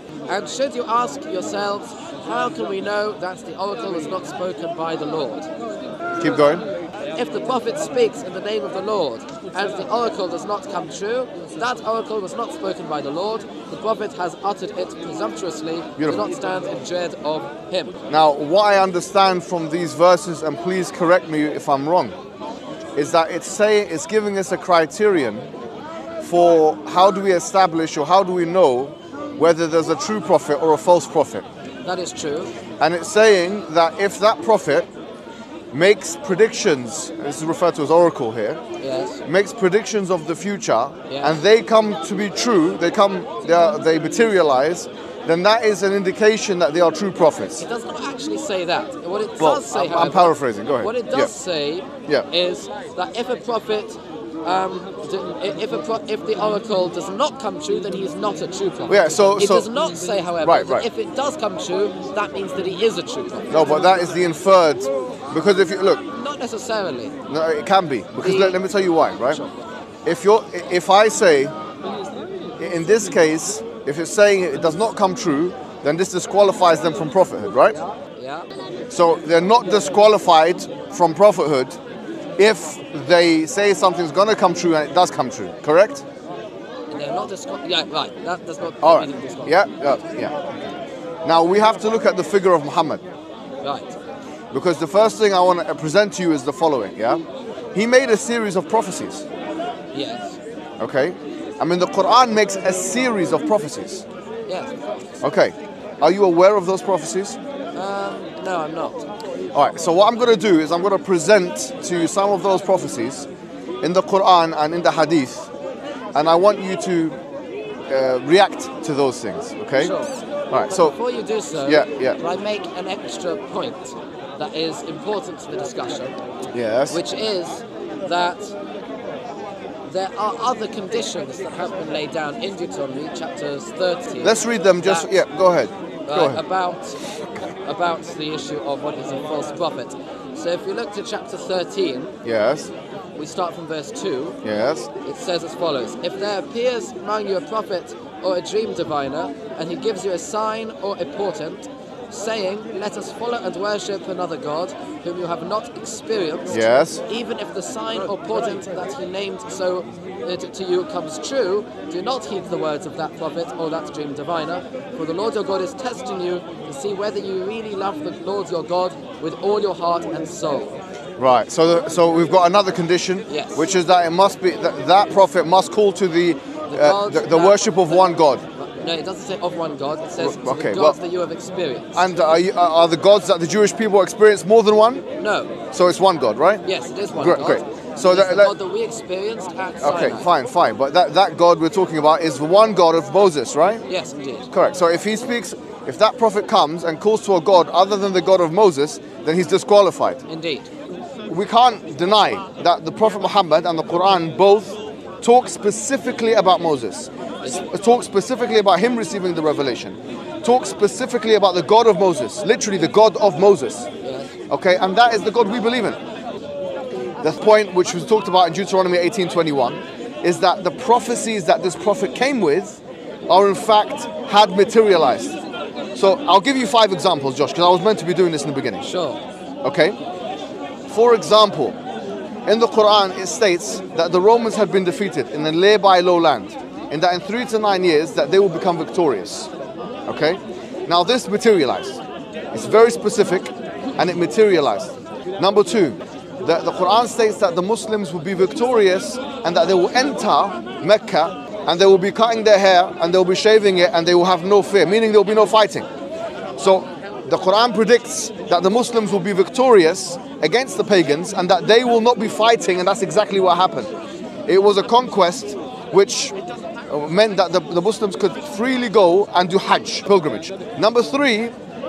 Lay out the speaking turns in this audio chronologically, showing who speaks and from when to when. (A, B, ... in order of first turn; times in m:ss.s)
0:00.3-0:05.5 A
0:06.2-0:06.6 B
0:07.1-0:18.0 A
0:16.0-0:16.2 B
0:18.1-0:22.1 B
0:22.9-0:25.5 B
0:26.2-0:31.4 B
0:31.8-0:32.5 A
0:32.8-0:34.9 B
0:35.7-0:38.6 B
0:38.8-0:39.2 A
0:39.2-0:47.6 B
0:41.1-0:41.4 A
0:47.6-1:03.7 A
0:49.4-0:51.3 B
0:58.9-0:59.7 B
1:00.4-1:00.9 B
1:03.5-1:06.0 B
1:06.1-1:07.2 A
1:07.3-1:09.4 B
1:08.2-1:08.6 A
1:09.3-1:09.6 A
1:10.0-1:11.5 B
1:12.6-1:17.8 B
1:18.2-1:18.4 A
1:18.9-1:21.8 B
1:22.4-1:26.0 B
1:26.9-1:29.7 A
1:28.8-1:30.6 B
1:31.2-1:33.0 B
1:33.6-1:34.0 A
1:34.5-1:39.2 B
1:39.9-1:40.4 A
1:40.8-1:44.0 B
1:44.5-1:45.1 A
1:45.2-1:47.4 B
1:47.7-1:49.0 A
1:49.5-1:53.3 B
1:53.8-1:55.5 B
1:56.1-1:57.2 B
1:57.9-1:59.9 B
1:59.8-2:00.1 A
2:00.5-2:01.0 B
2:00.7-2:06.1 A
2:01.6-2:02.2 B
2:06.5-2:07.0 B
2:06.9-2:08.5 A
2:09.9-2:15.1 A
2:14.2-2:16.4 B
2:16.0-2:22.1 A
2:22.2-2:22.7 B
2:23.2-2:24.4 A
2:24.4-2:24.9 B
2:25.0-2:50.8 A
2:36.5-2:37.0 B
2:51.2-2:58.4 B
2:53.3-2:53.6 A
2:56.7-3:02.3 A
3:00.2-3:01.0 B
3:02.0-3:05.0 B
3:05.2-3:05.6 A
3:05.7-3:06.6 B
3:06.6-3:10.3 A
3:07.2-3:08.5 B
3:09.8-3:13.8 B
3:13.9-3:14.5 A
3:14.5-3:20.2 B
3:20.3-3:20.7 A
3:21.3-3:33.9 B
3:34.0-3:34.3 A
3:34.5-3:36.0 B
3:37.2-3:45.4 B
3:45.9-3:48.9 B
3:48.8-3:49.2 A
3:49.6-3:50.0 B
3:50.9-3:51.8 B
3:52.4-3:59.5 B
4:00.1-4:02.0 B
4:02.5-4:15.9 B
4:16.6-4:23.9 B
4:24.4-4:26.3 B
4:26.9-4:31.5 B